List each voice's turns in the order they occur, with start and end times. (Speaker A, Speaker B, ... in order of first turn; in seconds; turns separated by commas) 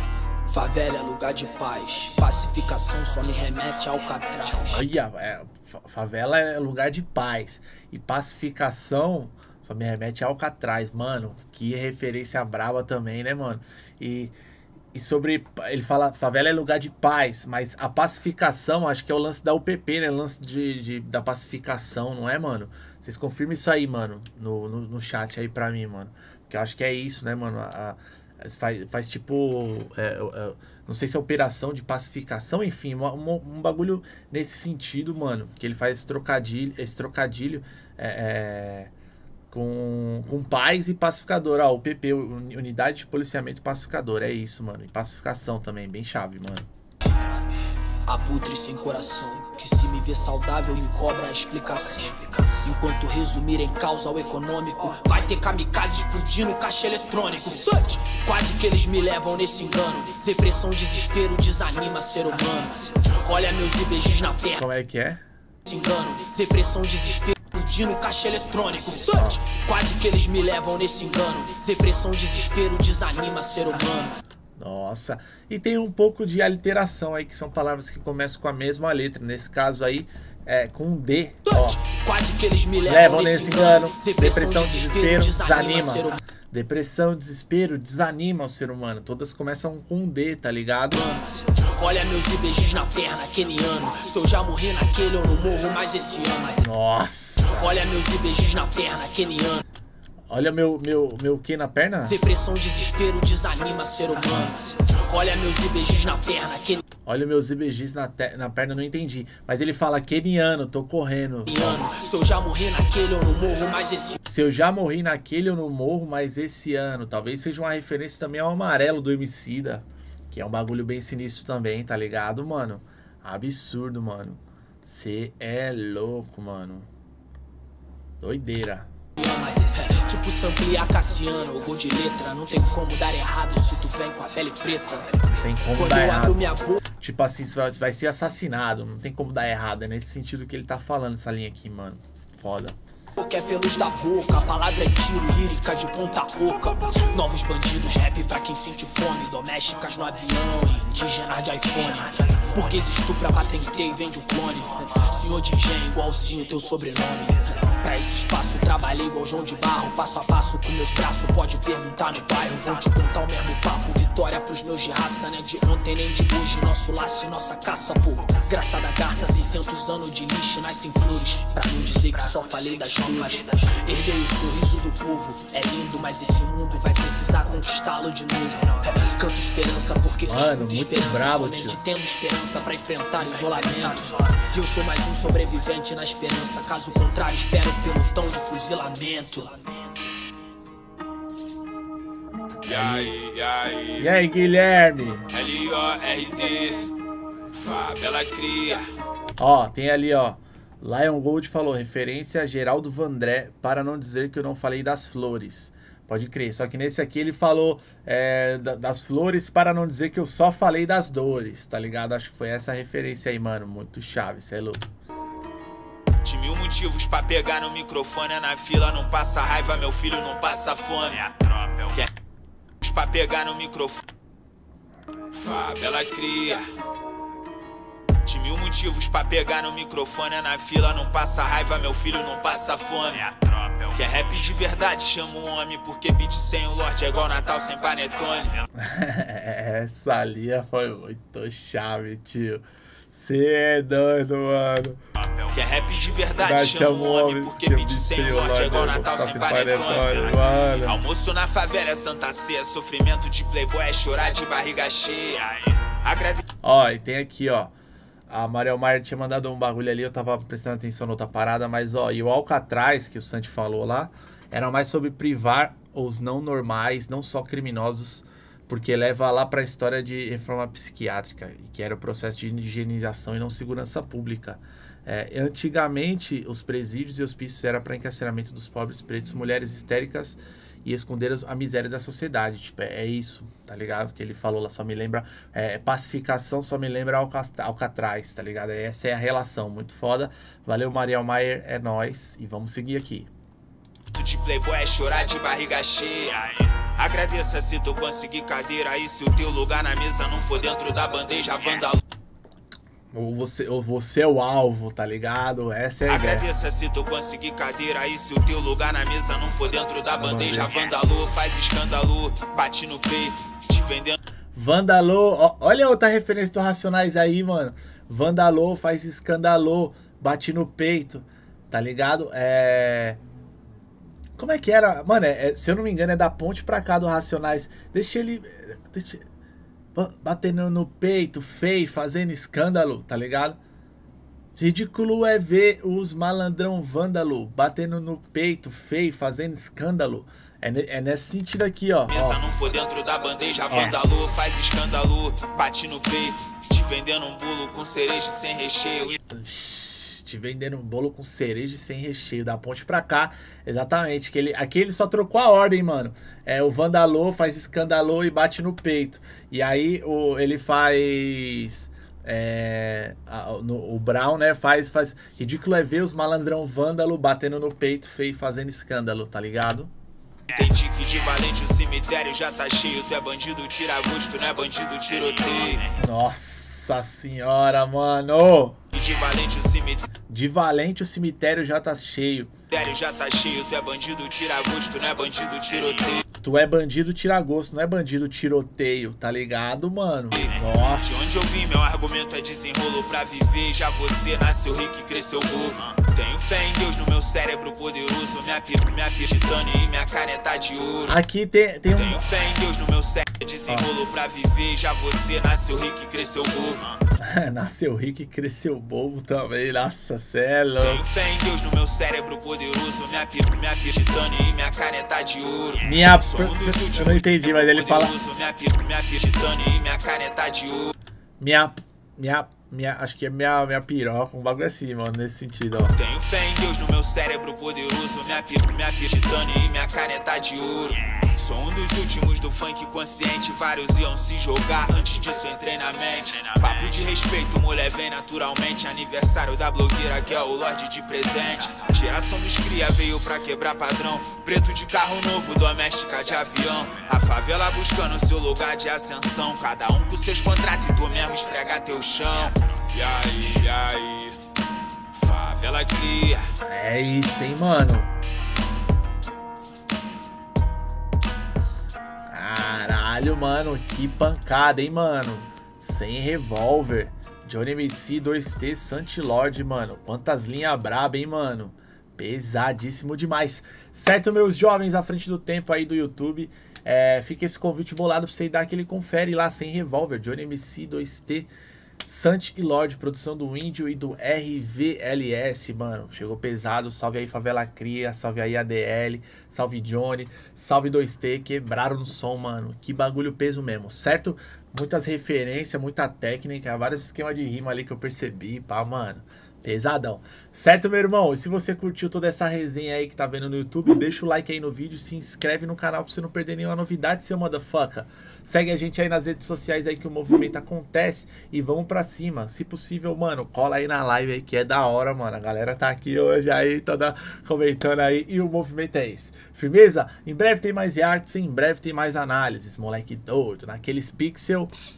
Speaker A: 0.5-4.8, Speaker B: 4.7-14.3, Speaker B: 14.9-38.9, Speaker B: 39.5-46.7, Speaker A: 48.1-64.7, Speaker B: 64.6-65.2, Speaker A: 65.7-74.2, Speaker B: 69.1-69.4, Speaker B: 74.6-81.8, Speaker A: 81.5-86.2, Speaker B: 82.8-91.0, Speaker A: 90.9-96.7, Speaker B: 96.6-97.7, Speaker A: 97.4-99.7, Speaker B: 100.3-102.2, Speaker A: 102.1-106.8, Speaker B: 107.0-111.8, Speaker A: 111.5-114.2, Speaker B: 114.2-126.9, Speaker B: 128.2-128.9, Speaker A: 129.2-136.8, Speaker B: 135.4-142.8, Speaker A: 143.2-189.6, Speaker B: 180.3-181.8, Speaker C: 192.6-194.2, Speaker B: 192.7-193.2, Speaker B: 194.0-195.3, Speaker C: 195.3-196.9, Speaker C: 197.5-198.8, Speaker B: 199.4-214.8, Speaker C: 216.2-222.1, Speaker C: 222.8-224.0, Speaker C: 225.3-226.6, Speaker C: 228.2-238.5, Speaker B: 238.8-245.0, Speaker C: 245.5-256.4, Speaker B: 246.4-251.0, Speaker B: 256.6-257.7, Speaker B: 258.3-293.3, Speaker C: 294.1-302.0, Speaker B: 303.1-306.5, Speaker C: 306.1-314.2, Speaker B: 310.2-310.7, Speaker B: 314.6-323.2, Speaker B: 324.4-329.2, Speaker B: 329.9-333.6, Speaker B: 334.6-342.4, Speaker C: 342.1-349.2, Speaker B: 343.7-344.0, Speaker B: 349.3-369.9, Speaker C: 370.5-375.9, Speaker B: 376.0-378.8, Speaker C: 378.9-380.1, Speaker B: 380.3-382.5, Speaker C: 382.7-386.2, Speaker B: 386.4-391.5, Speaker C: 390.3-401.2, Speaker B: 401.1-402.3, Speaker C: 401.9-406.8, Speaker B: 407.2-411.0, Speaker C: 410.8-420.9, Speaker B: 415.8-418.1, Speaker B: 421.4-425.9, Speaker C: 425.9-454.4, Speaker C: 455.1-456.5, Speaker B: 456.7-458.1, Speaker B: 462.3-481.5, Speaker B: 482.0-524.7